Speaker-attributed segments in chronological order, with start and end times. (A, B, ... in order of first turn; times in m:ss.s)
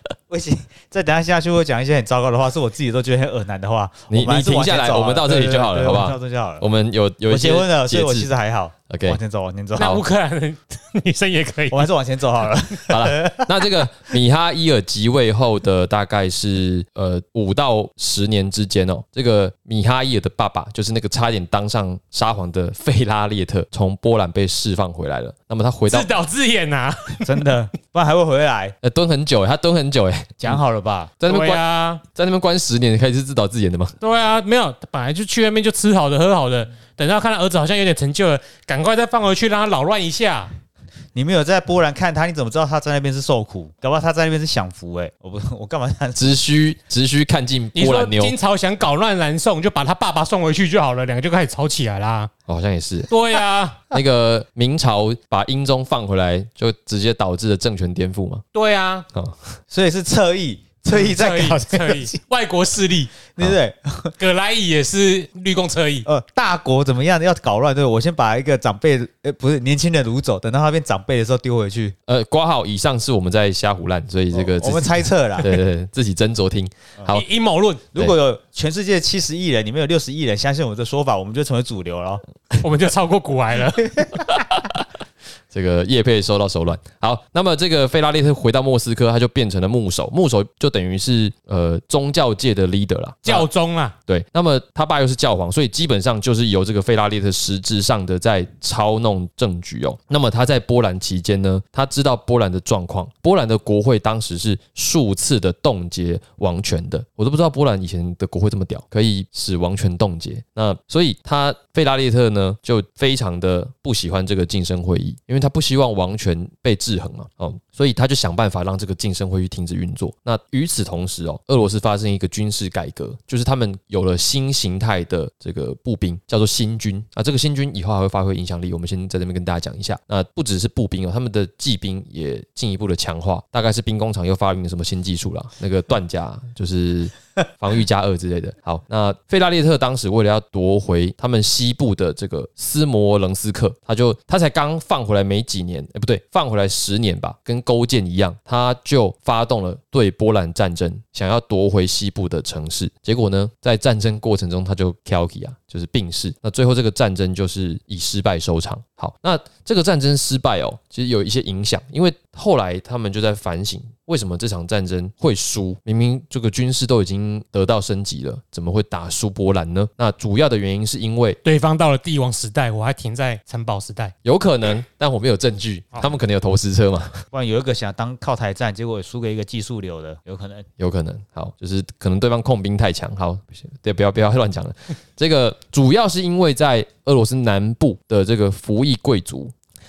0:00.3-0:06.6 A
0:04.1-0:08.3 B
0:07.3-0:10.0 A
0:08.9-0:09.2 B
0:09.8-0:11.9 C
0:11.7-0:13.6 A
0:12.9-0:26.1 B
0:25.9-0:27.5 C
0:27.2-0:28.8 A
0:28.8-0:30.6 B
0:30.4-0:31.1 A
0:31.2-0:33.9 B
0:31.2-0:32.0 C
0:34.0-0:40.5 C
0:41.1-0:46.4 A
0:46.2-0:48.4 B
0:47.8-0:52.3 C
0:52.5-0:53.1 B
0:53.1-0:53.8 C
0:53.9-0:58.4 B
0:58.5-0:59.1 C
0:59.1-0:59.5 B
0:59.7-1:02.2 A
1:00.9-1:03.1 C
1:03.3-1:04.1 A
1:04.2-1:06.1 C
1:06.1-1:11.9 A
1:12.1-1:17.3 B
1:14.3-1:15.6 A
1:17.1-1:17.9 C
1:17.9-1:22.2 A
1:22.6-1:23.9 C
1:23.9-1:24.2 A
1:24.3-1:24.8 B
1:25.5-1:33.5 B
1:33.2-1:34.0 C
1:34.1-2:51.4 B
2:51.4-2:54.1 C
2:54.2-2:57.2 B
2:57.3-3:00.7 A
3:00.8-3:09.5 B